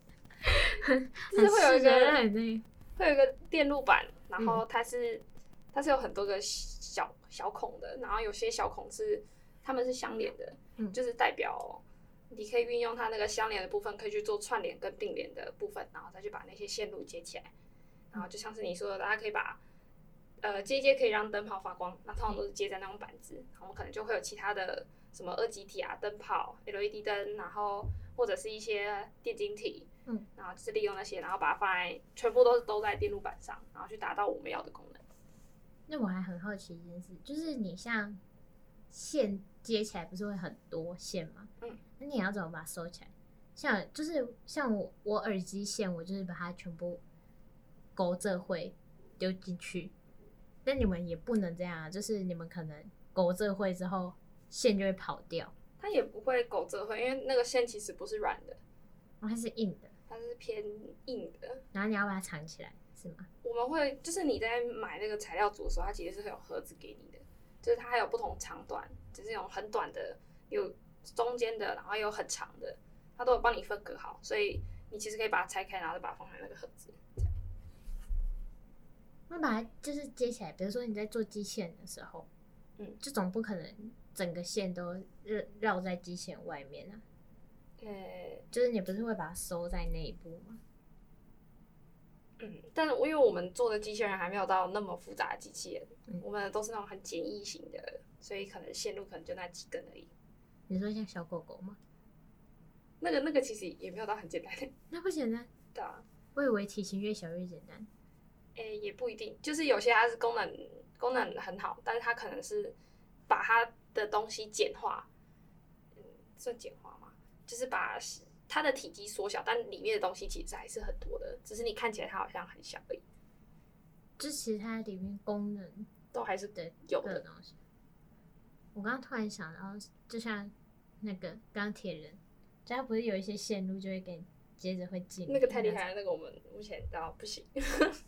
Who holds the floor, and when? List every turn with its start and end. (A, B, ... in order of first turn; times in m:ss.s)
0:00.4-0:02.6 A
0:01.3-0:02.2 B
0:03.0-0:17.5 B
0:18.1-0:19.6 B
0:20.4-0:35.0 B
0:35.9-0:38.2 A
0:38.9-0:47.0 A
0:48.0-0:49.9 A
0:50.6-0:55.5 A
0:55.8-0:58.6 B
0:59.2-0:59.9 A
1:00.1-1:01.6 B
1:01.7-1:03.3 A
1:03.4-1:17.3 B
1:19.3-1:22.3 A
1:23.0-1:27.0 A
1:27.8-1:28.5 B
1:28.5-1:30.6 A
1:32.4-1:40.1 B
1:40.7-1:41.8 A
1:43.0-1:44.7 B
1:44.9-1:45.5 A
1:45.8-1:46.0 B
1:46.4-1:47.9 A
1:48.6-1:52.8 B
1:53.3-1:55.1 B
1:56.0-2:03.0 B
2:04.2-2:05.9 A
2:06.1-2:07.2 B
2:06.6-2:07.6 A
2:08.8-2:15.8 A
2:15.3-2:18.0 B